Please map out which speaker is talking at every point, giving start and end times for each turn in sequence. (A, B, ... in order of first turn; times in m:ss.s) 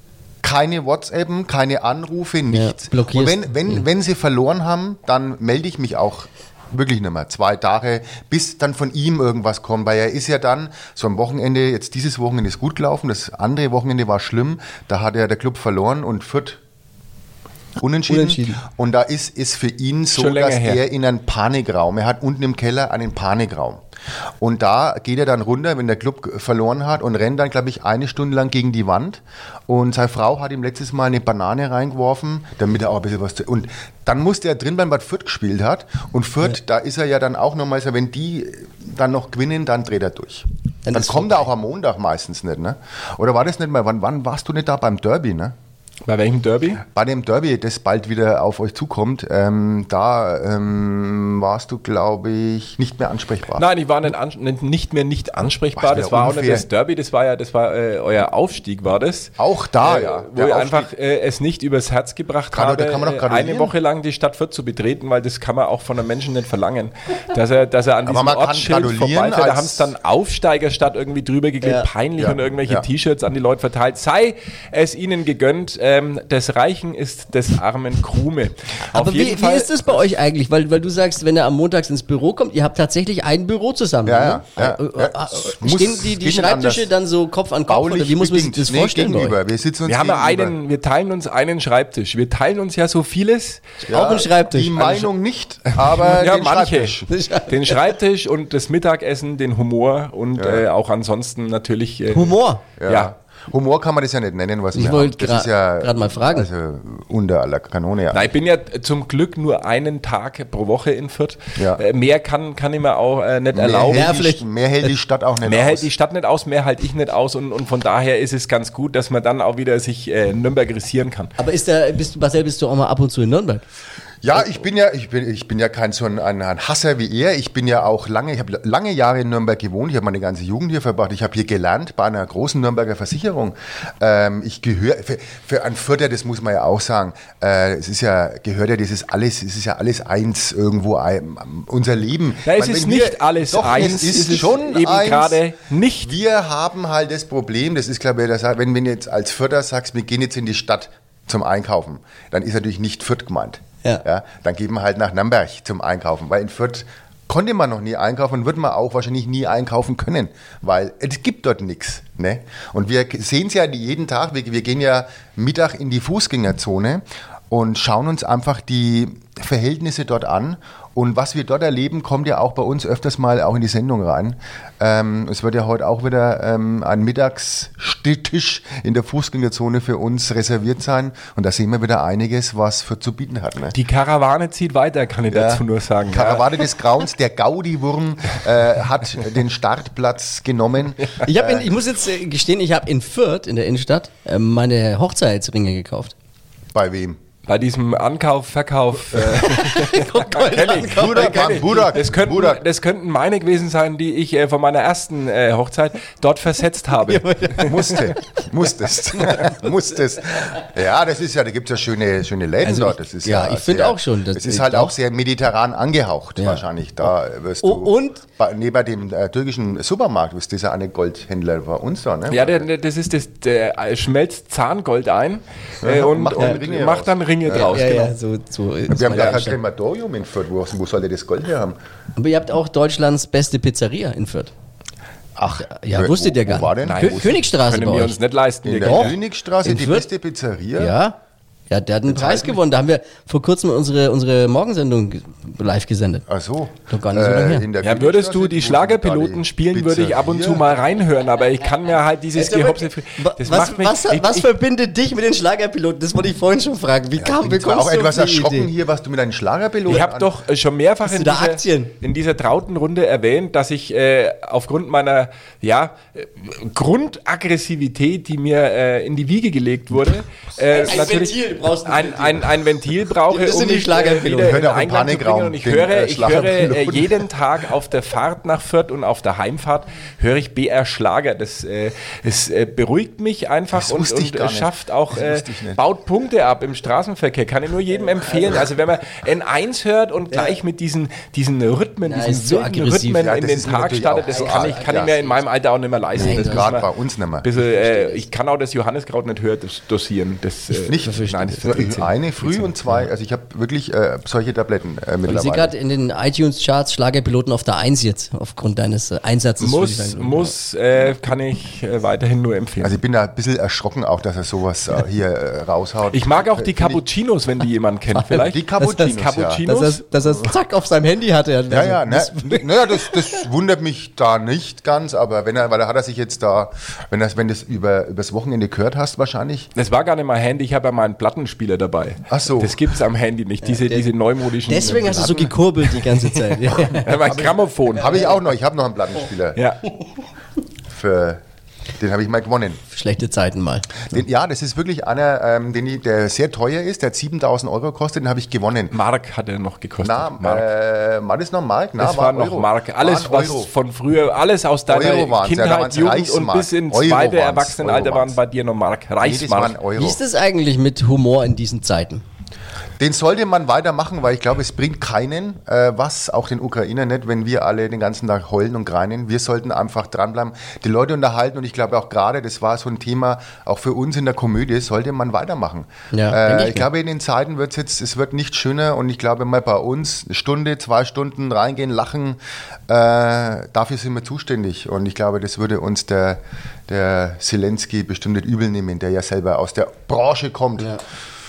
0:00.4-0:16.6 A
0:02.5-0:03.8 B
0:17.8-0:23.8 A
0:18.1-0:18.6 B
0:20.1-0:20.8 C
0:24.4-0:45.5 A
0:40.8-0:41.5 B
0:46.0-0:46.8 C
0:46.8-0:53.6 A
0:53.5-1:20.0 C
0:55.8-0:56.6 A
0:59.4-1:00.9 A
1:02.5-1:03.7 A
1:08.0-1:09.9 A
1:11.6-1:11.9 B
1:12.2-1:12.8 A
1:18.9-1:29.4 B
1:24.0-1:26.9 A
1:27.7-1:30.6 A
1:29.8-1:33.7 C
1:33.9-1:35.1 B
1:33.9-1:37.1 A
1:35.7-1:43.1 C
1:37.1-1:37.9 B
1:40.4-1:40.6 A
1:42.1-1:42.6 B
1:42.8-1:48.3 A
1:44.7-1:46.5 B
1:48.1-1:54.2 C
1:51.6-1:51.8 A
1:53.5-1:55.9 A
1:53.9-1:54.4 B
1:55.4-2:01.3 C
2:01.4-2:03.6 B
2:04.2-2:25.4 A
2:22.4-2:26.1 C
2:26.0-3:03.7 A
3:03.7-3:06.6 C
3:05.3-3:11.7 A
3:11.2-3:16.1 B
3:16.7-3:17.2 A
3:17.5-3:27.8 C
3:19.3-3:21.9 B
3:20.7-3:22.6 A
3:27.0-3:28.4 B
3:27.6-3:42.6 A
3:32.6-3:34.9 B
3:36.4-3:36.6 B
3:37.6-3:38.2 B
3:42.3-3:48.1 C
3:45.8-3:48.0 A
3:47.5-3:49.6 B
3:48.9-3:51.7 A
3:52.2-3:54.5 B
3:55.4-3:57.4 A
3:55.6-3:58.2 B
3:56.8-3:59.2 C
3:58.6-4:00.9 A
3:58.8-4:00.1 B
4:00.8-4:01.2 B
4:01.7-4:06.2 B
4:02.1-4:02.6 A
4:06.3-4:10.7 A
4:06.9-4:07.7 B
4:07.8-4:14.5 C
4:12.3-4:18.7 B
4:17.2-4:20.3 A
4:19.9-4:56.8 C
4:21.0-4:21.9 B
4:30.7-4:32.5 B
4:33.3-4:34.6 B
4:34.4-4:37.3 A
4:43.7-4:45.8 A
4:50.3-4:50.6 B
4:52.0-4:53.3 B
4:53.2-4:55.1 A
4:54.2-4:55.4 B
4:56.2-4:57.5 A
4:56.2-4:56.7 B
4:57.4-5:02.7 C
4:57.6-4:58.3 B
5:00.8-5:01.7 B
5:00.9-5:05.7 A
5:05.2-5:10.5 B
5:09.6-5:12.9 C
5:12.8-5:17.0 A
5:16.1-5:20.0 C
5:18.1-5:19.0 B
5:18.3-5:19.6 A
5:19.6-5:23.2 B
5:21.7-5:29.7 A
5:29.8-5:38.4 C
5:32.3-5:32.8 A
5:33.6-5:34.0 B
5:34.6-5:37.3 B
5:37.2-5:39.6 A
5:39.5-5:39.8 C
5:40.9-5:41.4 A
5:42.0-5:42.8 A
5:42.9-5:44.0 B
5:44.1-5:48.9 A
5:48.9-5:50.6 C
5:50.0-5:53.7 A
5:52.0-5:59.8 C
5:54.9-5:58.4 A
5:59.2-6:00.2 A
6:00.0-6:02.2 B
6:03.0-6:30.9 A
6:16.1-6:16.9 B